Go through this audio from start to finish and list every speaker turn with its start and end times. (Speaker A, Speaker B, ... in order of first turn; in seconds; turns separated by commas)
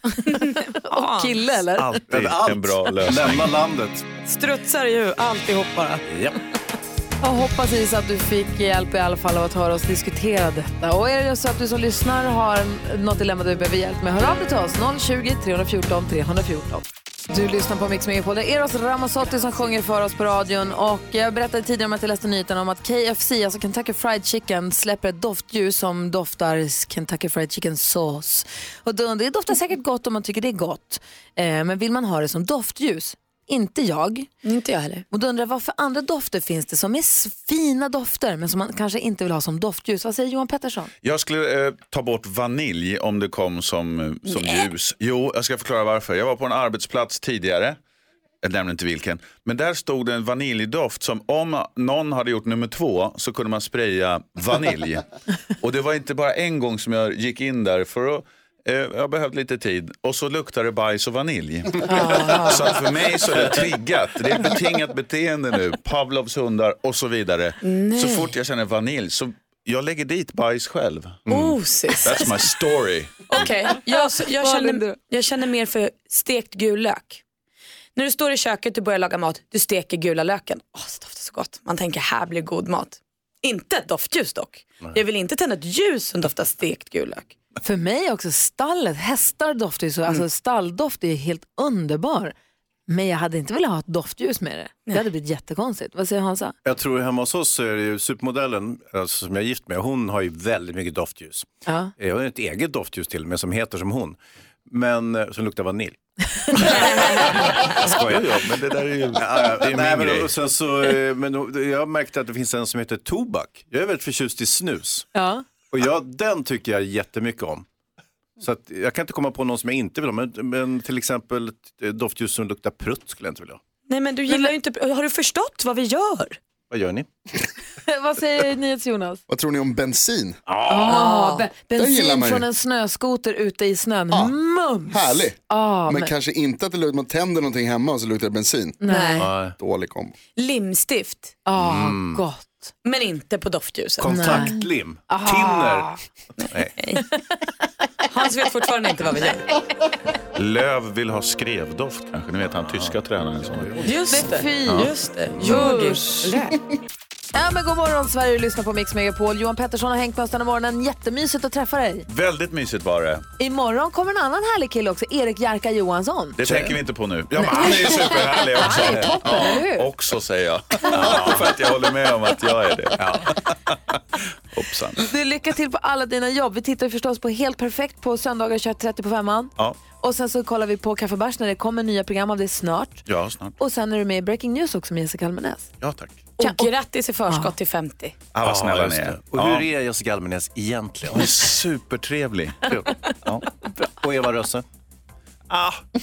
Speaker A: 0.2-2.0, Speaker B: 0.3-1.5, Speaker C: 1.7-3.5, Speaker D: 2.1-4.0, Speaker B: 4.3-6.0, Speaker D: 6.0-6.4, Speaker A: 7.2-34.3, Speaker B: 34.4-35.0, Speaker A: 35.1-40.9, Speaker C: 41.0-47.8, Speaker B: 44.3-44.6, Speaker C: 48.4-55.1, Speaker C: 55.6-71.2, Speaker A: 61.9-62.2, Speaker B: 61.9-62.7, Speaker B: 67.6-68.3, Speaker D: 71.3-71.6, Speaker B: 71.3-72.4, Speaker C: 72.0-73.3, Speaker B: 73.3-77.2, Speaker A: 73.8-75.0, Speaker B: 78.0-87.3, Speaker A: 87.6-92.3, Speaker A: 92.9-96.5, Speaker D: 96.6-106.0, Speaker A: 101.7-101.9, Speaker D: 106.5-108.4, Speaker C: 107.8-110.3, Speaker D: 109.2-115.1, Speaker A: 115.1-115.4, Speaker D: 115.7-117.7, Speaker D: 118.4-123.6, Speaker B: 123.9-126.4, Speaker D: 126.7-127.1, Speaker A: 127.8-129.2, Speaker E: 129.3-130.4, Speaker D: 130.5-131.1, Speaker A: 130.7-136.1, Speaker B: 130.9-131.5, Speaker E: 131.7-132.5, Speaker E: 134.9-138.8, Speaker A: 138.8-139.3, Speaker B: 138.9-139.3, Speaker D: 139.2-139.6, Speaker E: 139.5-140.1, Speaker B: 140.4-141.3, Speaker A: 141.4-142.7, Speaker D: 141.6-142.2, Speaker B: 142.8-144.5, Speaker D: 144.0-145.9, Speaker A: 144.1-144.6, Speaker A: 145.1-145.9, Speaker B: 146.4-147.1, Speaker D: 146.5-146.7, Speaker B: 148.1-149.5, Speaker C: 150.3-153.8, Speaker D: 152.4-153.9, Speaker B: 153.8-156.5, Speaker A: 154.1-156.4, Speaker A: 157.3-162.1, Speaker C: 162.1-163.2, Speaker A: 163.4-166.4, Speaker C: 166.4-173.8, Speaker D: 166.4-166.7, Speaker A: 167.4-169.9, Speaker D: 168.8-169.2, Speaker D: 170.9-171.4, Speaker D: 173.0-173.3, Speaker C: 174.5-175.0, Speaker A: 175.1-183.0, Speaker C: 183.1-183.6, Speaker A: 183.6-185.7, Speaker C: 185.8-186.3, Speaker B: 186.4-188.2, Speaker A: 186.4-186.7, Speaker C: 188.3-189.7, Speaker D: 188.4-191.3, Speaker C: 191.1-192.7, Speaker D: 194.0-194.6, Speaker C: 195.5-195.8